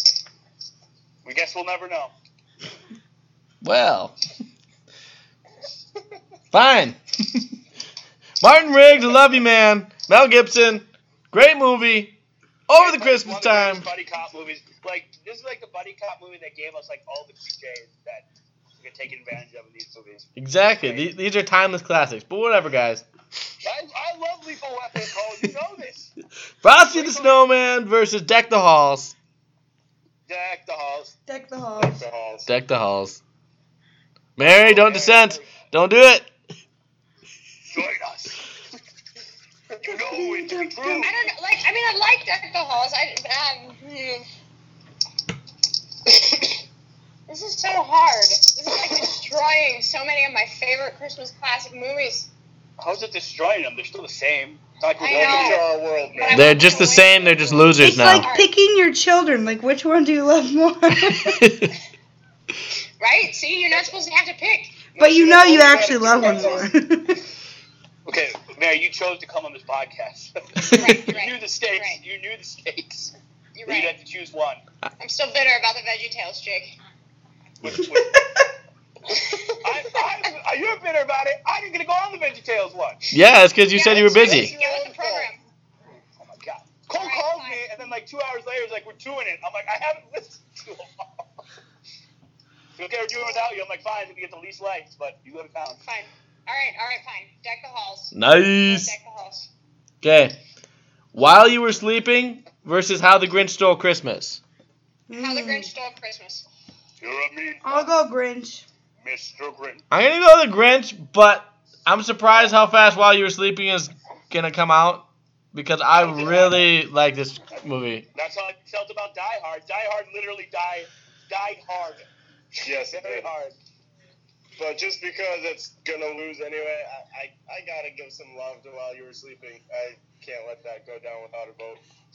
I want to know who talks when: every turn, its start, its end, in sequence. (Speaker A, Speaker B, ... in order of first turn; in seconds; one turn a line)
Speaker A: 1.2-2.1
Speaker B: 3.6-4.1
Speaker B: 6.5-7.5
Speaker B: 8.4-12.2
Speaker B: 12.7-13.9
Speaker A: 12.8-18.2
Speaker A: 18.8-21.1
Speaker B: 20.4-23.0
Speaker A: 23.6-26.1
Speaker B: 26.6-29.1
Speaker A: 26.9-27.4
Speaker A: 30.3-31.1
Speaker C: 31.3-32.0
Speaker D: 31.8-32.5
Speaker B: 32.5-33.2
Speaker B: 34.4-36.3
Speaker A: 34.4-35.7
Speaker A: 37.7-38.4
Speaker A: 39.8-41.2
Speaker C: 39.9-41.1
Speaker E: 41.0-44.3
Speaker E: 47.3-52.3
Speaker A: 52.8-55.7
Speaker E: 55.0-58.5
Speaker D: 55.0-56.8
Speaker B: 56.3-58.3
Speaker C: 57.8-61.5
Speaker B: 61.1-61.7
Speaker E: 63.0-64.8
Speaker D: 64.9-66.7
Speaker C: 65.0-67.2
Speaker A: 68.0-73.1
Speaker E: 70.7-72.0
Speaker E: 73.5-73.9
Speaker A: 73.7-74.6
Speaker E: 75.0-76.7
Speaker A: 77.6-78.2
Speaker C: 77.8-78.2
Speaker A: 79.6-83.2
Speaker B: 83.1-84.5
Speaker E: 83.7-85.4
Speaker D: 83.9-85.3
Speaker A: 86.2-91.2
Speaker E: 86.9-87.6
Speaker A: 92.8-95.8
Speaker E: 95.8-99.5
Speaker B: 98.1-98.9
Speaker B: 100.0-100.3
Speaker B: 101.1-104.4
Speaker C: 105.1-105.7
Speaker E: 105.1-106.5
Speaker A: 107.0-107.9
Speaker C: 107.6-108.7
Speaker A: 109.0-109.8
Speaker B: 109.9-118.1
Speaker A: 116.0-116.7
Speaker A: 118.1-122.1
Speaker D: 122.6-123.3
Speaker A: 122.6-123.5
Speaker D: 124.6-131.8